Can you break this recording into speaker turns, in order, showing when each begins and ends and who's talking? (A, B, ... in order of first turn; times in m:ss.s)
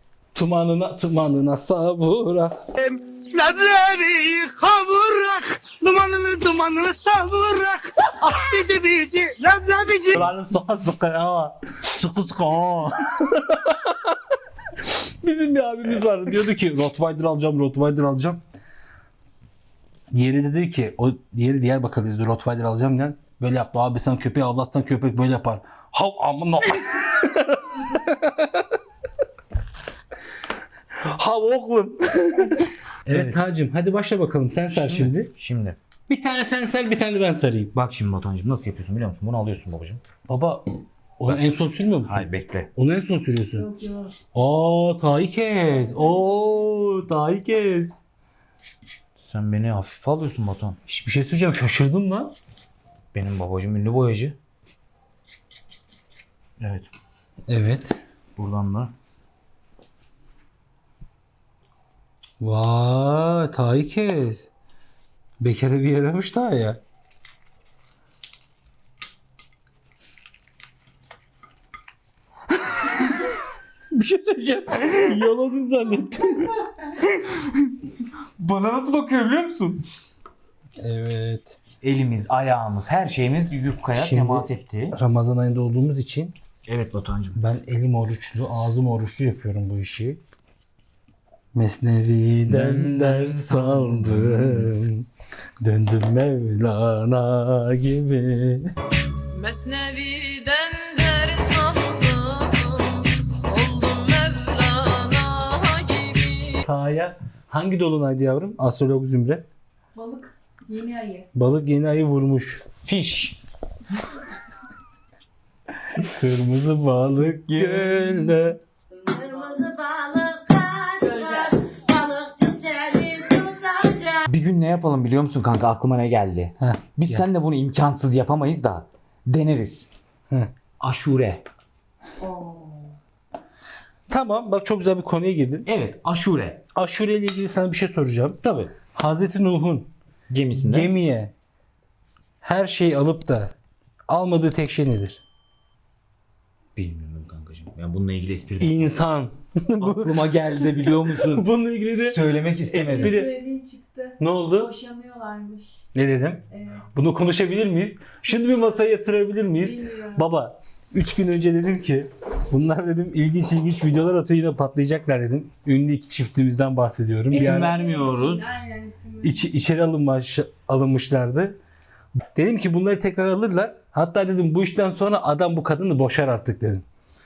0:00.3-0:02.6 A
0:02.8-0:10.2 B
0:10.1-0:14.2 A
0:14.8-0:18.4 A
0:20.1-0:28.7 A
0:31.0-0:35.3 A
0:33.1-0:33.4 C
0:34.7-0:35.8 C
0:36.1-0:37.7 A
0:37.7-0:40.0 C
0:40.3-0:40.7 A
0:41.2-0:43.6 A
0:42.0-0:42.7 C
0:43.6-0:44.2 D
0:44.3-0:48.0 A
0:49.2-0:50.8 C
0:50.9-0:52.3 A
0:53.1-0:54.4 C
0:56.6-0:56.9 C
0:57.5-0:58.0 A
0:58.4-0:58.9 C
1:02.4-1:04.5 A
1:05.4-1:06.8 A
1:13.9-1:16.6 A
1:17.1-1:17.7 C
1:18.4-1:19.8 C
1:20.8-1:21.6 A
1:21.8-1:25.0 C
1:24.0-1:26.3 A
1:26.6-1:27.4 C
1:27.4-1:30.2 A
1:31.5-1:35.0 A
1:32.5-1:34.7 C
1:35.6-1:38.7 A
1:39.3-1:46.6 E
1:46.6-1:49.4 A
1:49.9-1:51.3 D
1:51.3-1:52.6 A
1:52.8-1:53.4 C
1:56.0-1:58.6 A
1:57.5-1:58.3 C
1:59.0-2:04.2 E
2:04.2-2:09.9 C
2:06.6-2:07.2 A
2:10.8-2:11.4 C
2:12.2-2:12.6 D
2:14.1-2:15.7 A
2:15.6-2:16.6 C
2:16.7-2:18.4 A
2:18.4-2:18.7 C
2:18.9-2:19.9 A
2:20.3-2:20.9 C
2:20.6-2:21.3 A
2:22.4-2:23.5 A
2:24.1-2:25.2 A
2:26.8-2:28.9 C
2:28.6-2:30.6 A
2:29.8-2:31.5 C
2:31.2-2:33.3 A
2:32.0-2:33.2 C
2:32.8-2:35.8 D
2:34.2-2:34.7 A
2:35.9-2:36.4 A
2:36.5-2:36.8 D
2:36.9-2:47.8 A
2:39.6-2:40.3 D
2:47.3-2:48.6 C
2:47.4-2:49.4 D
2:49.2-2:51.6 A
2:52.3-2:56.8 A